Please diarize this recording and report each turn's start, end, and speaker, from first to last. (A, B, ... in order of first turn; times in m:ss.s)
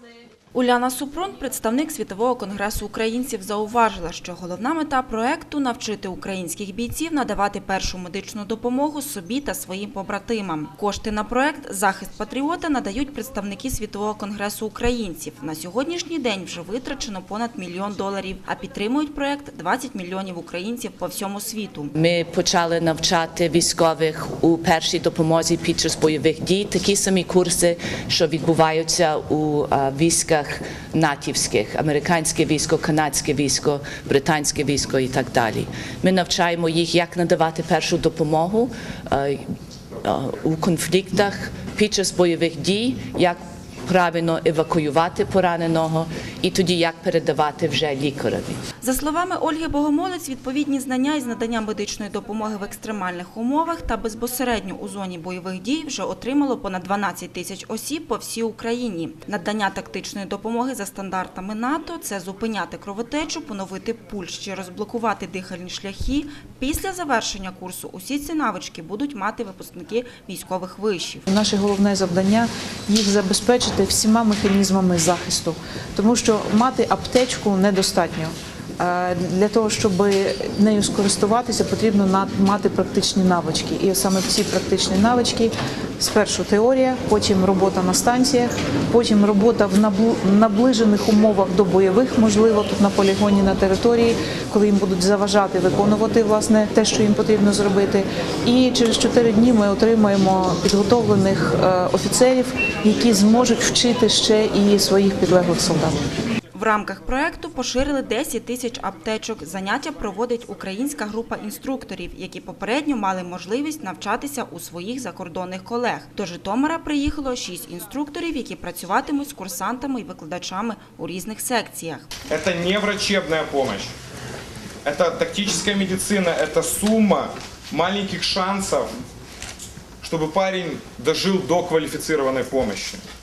0:00.5-0:21.9 A
0:22.0-0:39.4 B
0:40.0-0:48.6 B
0:48.8-1:11.3 A
1:11.3-1:46.0 C
1:46.5-2:02.1 A
2:02.3-2:03.9 D
2:04.8-2:08.9 D
2:10.0-2:13.0 D